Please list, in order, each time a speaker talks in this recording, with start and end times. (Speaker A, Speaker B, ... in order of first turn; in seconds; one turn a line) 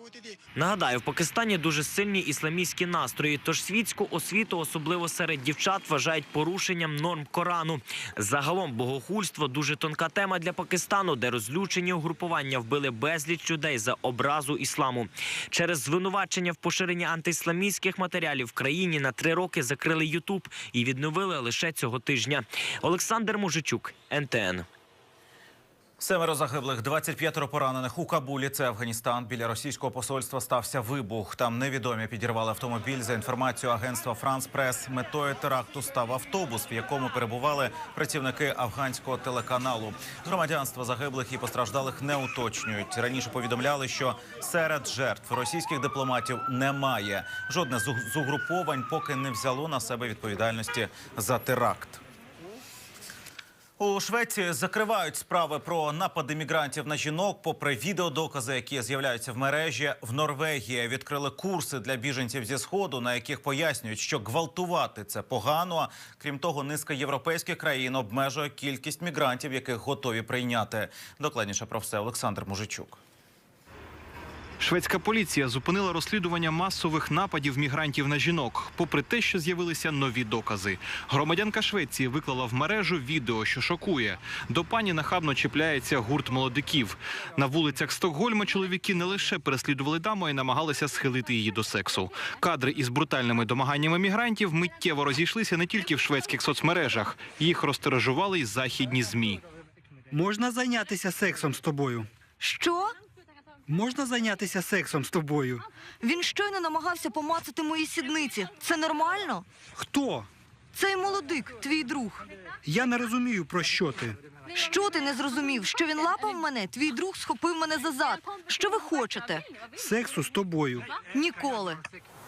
Speaker A: 0.6-24.7
Speaker B: 26.0-52.0
Speaker B: 53.8-73.0
Speaker C: 74.6-99.4
Speaker D: 100.1-102.1
Speaker E: 102.4-102.9
Speaker D: 103.7-105.6
Speaker E: 106.0-109.5
Speaker D: 109.8-110.3
Speaker E: 110.8-112.3
Speaker D: 112.7-114.2
Speaker E: 114.5-119.4
Speaker D: 119.8-120.9
Speaker E: 121.1-121.8